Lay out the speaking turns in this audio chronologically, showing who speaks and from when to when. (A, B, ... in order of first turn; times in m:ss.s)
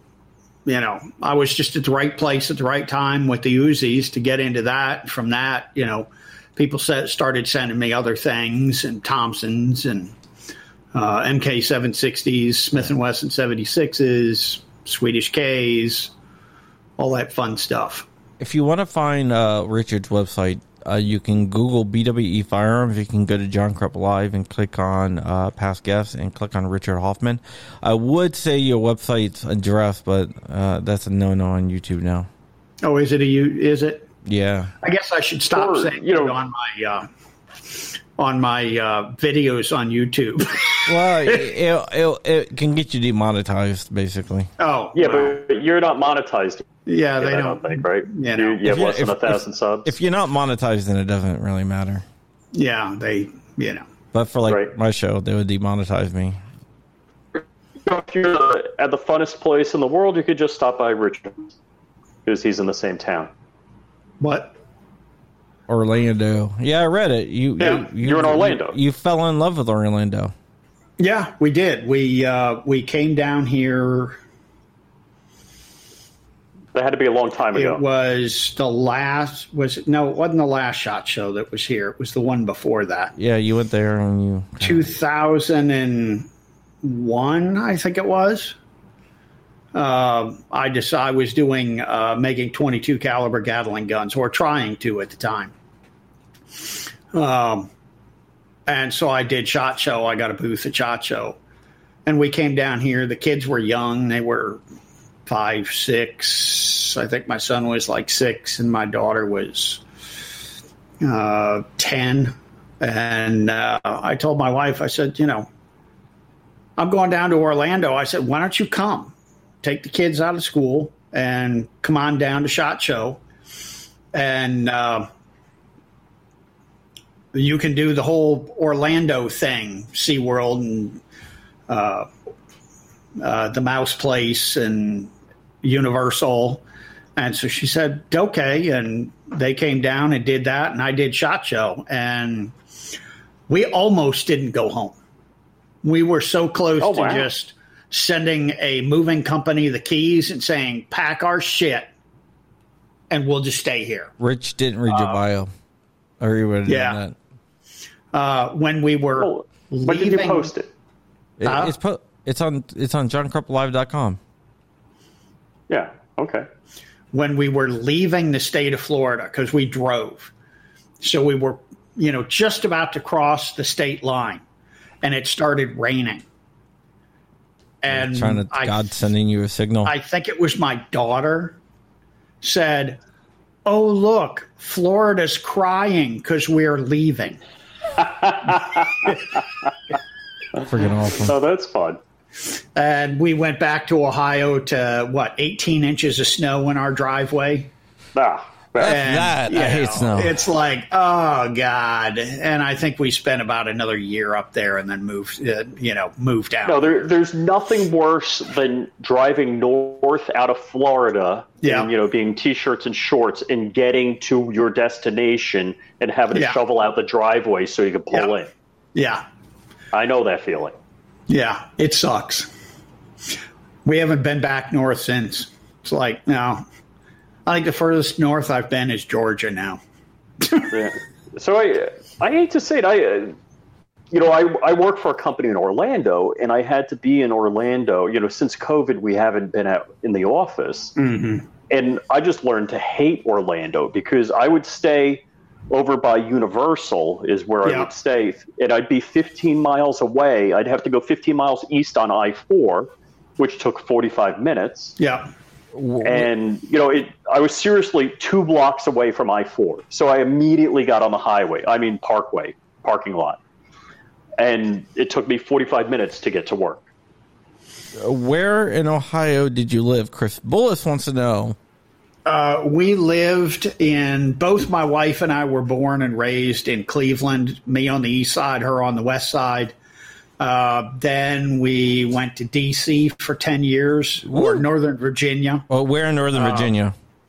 0:00.6-0:10.1 A
0:10.9-0:16.1 A
0:17.0-0:18.0 A
0:18.4-0:32.3 B
0:32.8-0:34.1 A
0:34.2-0:34.7 B
0:34.8-0:37.1 A
0:35.5-0:36.3 C
0:38.2-0:41.4 A
0:40.8-0:44.5 B
0:44.6-0:45.4 A
0:45.0-0:46.6 C
0:46.8-0:48.6 A
0:47.2-0:49.9 C
0:48.6-0:52.0 B
0:52.5-0:53.9 A
0:54.1-0:56.4 B
0:54.5-0:54.7 C
0:57.3-1:01.5 C
1:02.2-1:03.3 C
1:04.2-1:04.5 A
1:05.7-1:10.3 B
1:07.7-1:08.8 C
1:11.0-1:14.2 A
1:16.7-1:17.8 C
1:17.5-1:23.1 A
1:23.2-1:24.9 B
1:24.6-1:26.3 A
1:26.8-1:28.6 A
1:29.7-1:35.5 A
1:37.1-1:37.7 A
1:38.6-1:41.4 A
1:42.0-1:44.6 A
1:45.2-1:49.8 A
1:51.0-1:55.5 A
1:56.8-2:03.2 A
2:04.1-2:05.1 A
2:07.3-2:11.0 A
2:11.7-2:12.1 A
2:13.2-2:15.1 A
2:15.6-2:16.6 A
2:17.2-2:22.5 A
2:23.5-2:25.0 A
2:25.8-2:31.9 A
2:26.8-2:27.3 C
2:33.1-2:34.1 A
2:34.2-2:35.5 B
2:36.2-2:37.2 B
2:36.6-2:37.0 A
2:38.1-2:40.5 A
2:39.2-2:40.7 C
2:41.4-2:44.2 B
2:41.4-2:41.7 A
2:45.7-2:46.5 C
2:47.1-2:50.3 A
2:51.0-2:54.4 A
2:55.0-2:56.2 A
2:57.8-2:58.8 A
2:57.9-2:59.9 B
2:59.8-3:01.6 A
3:02.4-3:03.0 A
3:03.6-3:07.4 A
3:08.0-3:09.2 C
3:10.6-3:11.4 B
3:11.2-3:12.0 C
3:12.7-3:17.7 A
3:18.1-3:19.0 C
3:18.8-3:20.4 B
3:18.8-3:26.9 A
3:26.6-3:38.5 C
3:31.6-3:31.9 A
3:36.3-3:36.6 A
3:38.9-3:39.2 A
3:39.9-3:40.7 C
3:41.3-3:42.5 A
3:43.8-3:46.6 A
3:47.4-3:49.8 A
3:50.4-3:50.7 A
3:50.7-3:53.4 C
3:54.1-4:00.9 C
4:01.0-4:01.5 A
4:01.7-4:15.0 C
4:07.6-4:07.9 A
4:15.0-4:15.3 A
4:15.7-4:16.3 B
4:16.0-4:23.4 C
4:24.4-4:26.8 C
4:28.0-4:31.6 B
4:32.2-4:39.7 A
4:40.4-4:45.7 A
4:44.2-4:44.7 B
4:45.7-4:46.9 B
4:46.3-4:46.7 A